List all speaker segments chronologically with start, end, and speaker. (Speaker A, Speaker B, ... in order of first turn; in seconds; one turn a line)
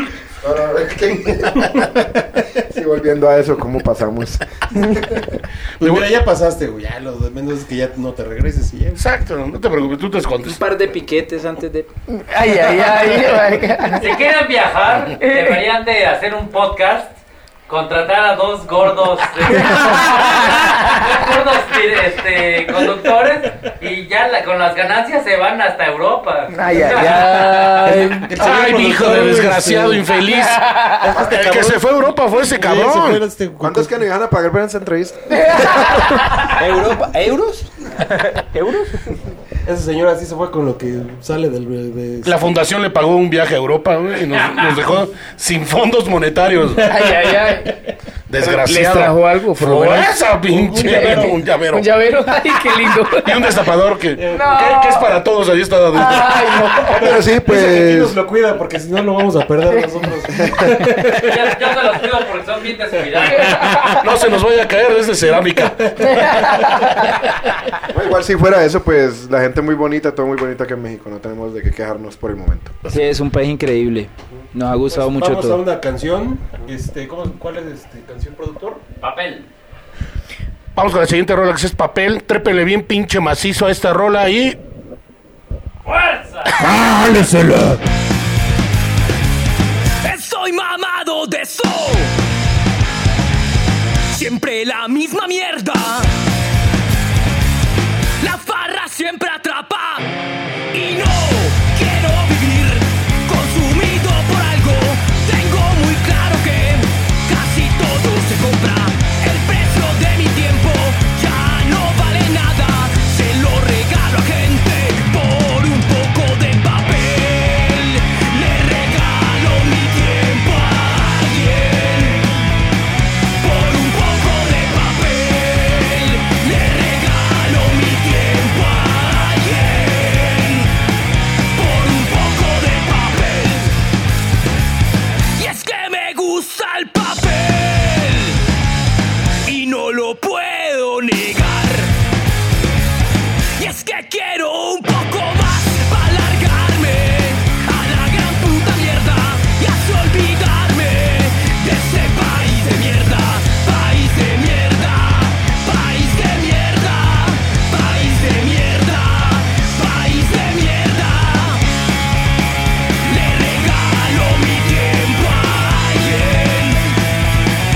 Speaker A: 0.4-5.3
Speaker B: 5.8-9.1
Speaker C: 5.8-6.1
Speaker C: 9.0-10.6
Speaker D: 10.4-11.9
Speaker E: 12.1-14.1
Speaker F: 13.9-17.2
Speaker E: 15.2-15.6
Speaker F: 17.7-27.8
Speaker E: 19.5-21.0
Speaker E: 26.5-28.3
Speaker B: 27.8-30.1
Speaker C: 28.3-33.2
Speaker E: 30.7-31.1
Speaker B: 31.0-34.0
Speaker A: 33.6-36.0
Speaker E: 35.3-36.5
Speaker D: 36.4-37.7
Speaker E: 38.3-39.0
Speaker B: 39.6-42.5
Speaker C: 42.2-47.0
Speaker E: 46.8-47.8
Speaker B: 47.0-47.8
Speaker C: 48.3-51.9
Speaker E: 48.4-50.1
Speaker B: 50.4-51.4
Speaker E: 50.8-53.6
Speaker C: 53.2-56.9
Speaker B: 54.2-54.5
Speaker E: 54.3-55.2
Speaker E: 55.9-57.1
Speaker A: 56.9-58.2
Speaker B: 56.9-61.6
Speaker A: 60.4-60.7
Speaker F: 61.1-63.9
Speaker B: 63.1-63.5
Speaker E: 63.5-64.0
Speaker C: 63.9-66.4
Speaker B: 65.5-66.9
Speaker E: 66.0-67.2
Speaker A: 67.9-72.8
Speaker D: 72.9-75.6
Speaker B: 74.9-78.8
Speaker F: 79.0-79.5
Speaker C: 80.8-84.6
Speaker F: 85.9-86.7
Speaker C: 86.8-87.8
Speaker G: 90.0-92.1
Speaker G: 94.1-96.1
Speaker G: 98.2-100.1
Speaker G: 100.7-122.4
Speaker G: 123.3-130.8
Speaker G: 131.5-133.8
Speaker G: 135.4-138.4
Speaker G: 139.4-141.9
Speaker G: 143.6-161.7
Speaker G: 163.0-166.9